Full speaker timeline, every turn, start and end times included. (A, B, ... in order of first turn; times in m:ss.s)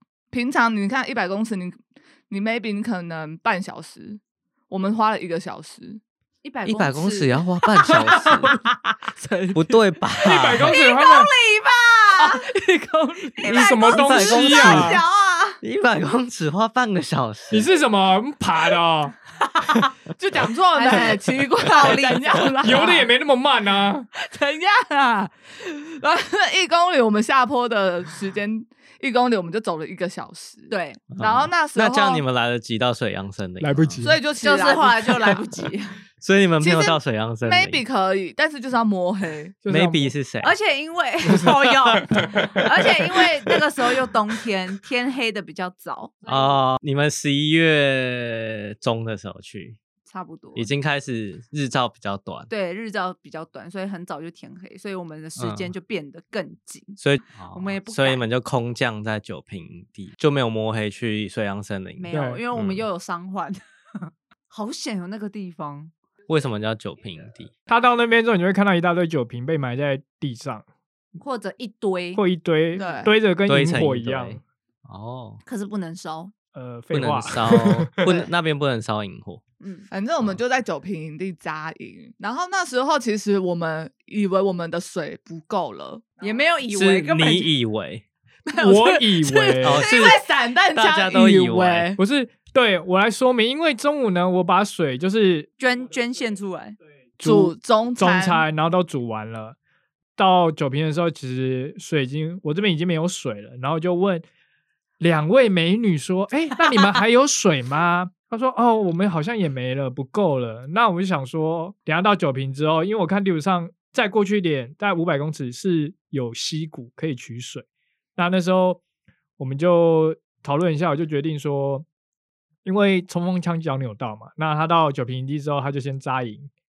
0:00.3-0:06.0 A
0:06.4-0:08.6 B
0:06.6-0:08.6 C
0:08.2-0:08.5 A
0:09.2-0:09.8 A
0:09.5-0:10.7 C
0:10.2-0:11.3 D
0:10.6-0:12.4 B
0:12.2-0:13.8 A
0:13.4-0:15.6 B
0:13.5-0:15.0 D
0:13.8-0:15.0 C
0:15.6-0:17.7 C
0:17.5-0:19.1 D
0:19.6-0:19.9 B
0:20.2-0:23.0 A
0:20.7-0:23.0 B
0:22.6-0:24.1 D
0:24.2-0:32.2 A
0:30.7-0:31.0 B
0:31.1-0:34.0 C
0:33.6-0:34.2 D
0:34.0-0:35.5 A
0:34.4-0:36.0 B
0:36.2-0:37.8 C
0:36.6-0:39.5 A
0:39.6-0:40.1 D
0:39.7-0:40.5 C
0:40.4-0:46.4 B
0:41.3-0:42.9 D
0:46.2-0:49.8 C
0:50.1-0:50.7 B
0:50.5-0:52.5 C
0:52.5-0:57.0 B
0:55.4-0:55.7 C
0:57.0-1:02.8 C
0:57.5-0:58.2 B
1:02.0-1:05.9 B
1:02.1-1:02.4 D
1:06.3-1:07.5 C
1:07.7-1:10.6 D
1:11.2-1:12.2 B
1:12.1-1:14.4 D
1:12.7-1:13.1 A
1:13.5-1:15.4 C
1:15.4-1:16.3 B
1:16.5-1:18.1 D
1:16.9-1:19.4 C
1:19.6-1:19.9 B
1:19.9-1:26.1 A
1:26.2-1:27.5 B
1:26.7-1:28.0 C
1:28.5-1:30.0 B
1:28.6-1:29.8 D
1:29.6-1:30.2 C
1:29.8-1:32.0 A
1:30.7-1:31.9 C
1:32.0-1:35.5 D
1:35.6-1:36.8 B
1:37.2-1:39.6 D
1:37.2-1:38.4 A
1:40.2-1:44.2 D
1:45.0-1:57.6 D
1:58.2-1:58.8 D
1:59.4-2:01.8 D
2:02.6-2:06.5 D